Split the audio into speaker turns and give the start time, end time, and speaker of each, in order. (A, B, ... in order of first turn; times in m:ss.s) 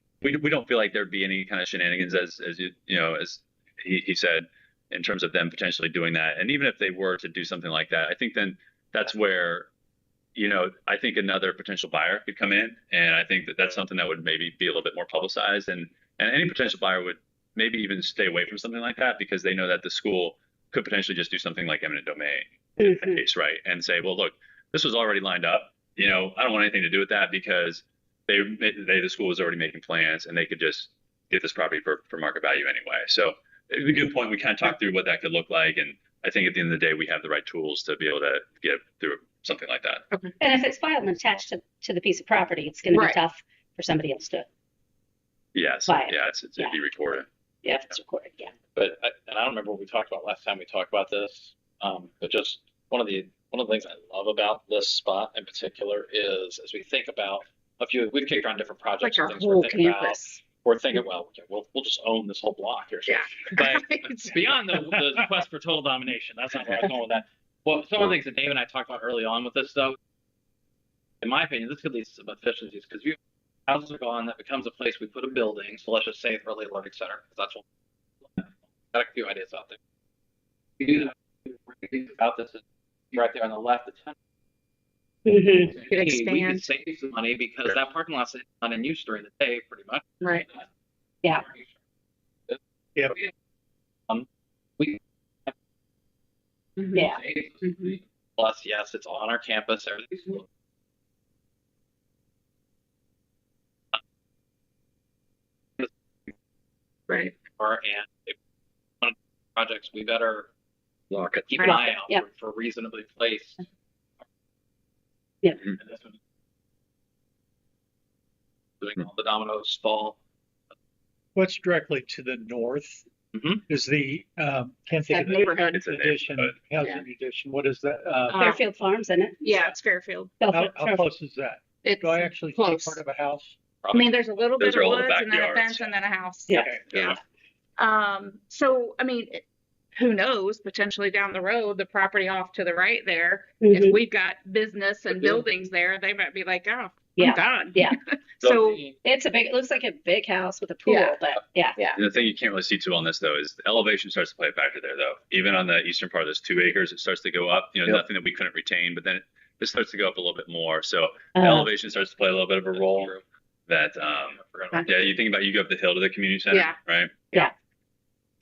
0:00.2-0:09.7 A
0:10.4-0:40.0 A
0:22.8-0:23.2 B
0:40.4-0:44.5 B
0:42.9-0:43.2 C
0:45.6-0:47.3 A
0:45.9-0:46.8 B
0:47.6-0:48.5 B
0:48.8-1:10.0 D
0:59.0-1:00.4 C
1:03.1-1:04.4 C
1:11.2-1:17.6 D
1:18.9-1:19.8 D
1:20.8-1:24.2 D
1:25.3-1:25.7 B
1:25.7-1:30.6 D
1:25.9-1:26.7 C
1:31.3-1:31.7 D
1:34.8-1:35.5 D
1:36.9-1:40.4 D
1:37.0-1:37.2 B
1:47.1-1:47.4 C
1:47.5-1:48.4 D
1:49.0-1:50.5 D
1:51.1-1:53.6 D
1:51.6-1:52.2 B
1:55.7-1:56.1 D
1:58.8-2:00.2 D
2:01.4-2:03.1 E
2:03.3-2:03.6 D
2:03.7-2:08.6 E
2:05.0-2:05.8 C
2:05.7-2:06.6 A
2:08.3-2:08.6 C
2:08.4-2:09.4 B
2:09.4-2:10.4 C
2:10.4-2:11.1 B
2:10.5-2:13.6 E
2:11.8-2:13.0 C
2:13.8-2:14.1 D
2:13.9-2:17.2 C
2:14.6-2:16.0 A
2:16.9-2:17.2 A
2:17.8-2:19.4 C
2:20.0-2:28.8 C
2:23.6-2:24.0 B
2:27.2-2:28.0 B
2:28.4-2:29.0 D
2:29.0-2:31.8 B
2:30.9-2:31.2 C
2:32.0-2:43.1 A
2:41.4-2:41.7 B
2:42.7-2:43.2 D
2:43.7-2:47.2 A
2:44.2-2:44.9 D
2:46.5-2:46.8 C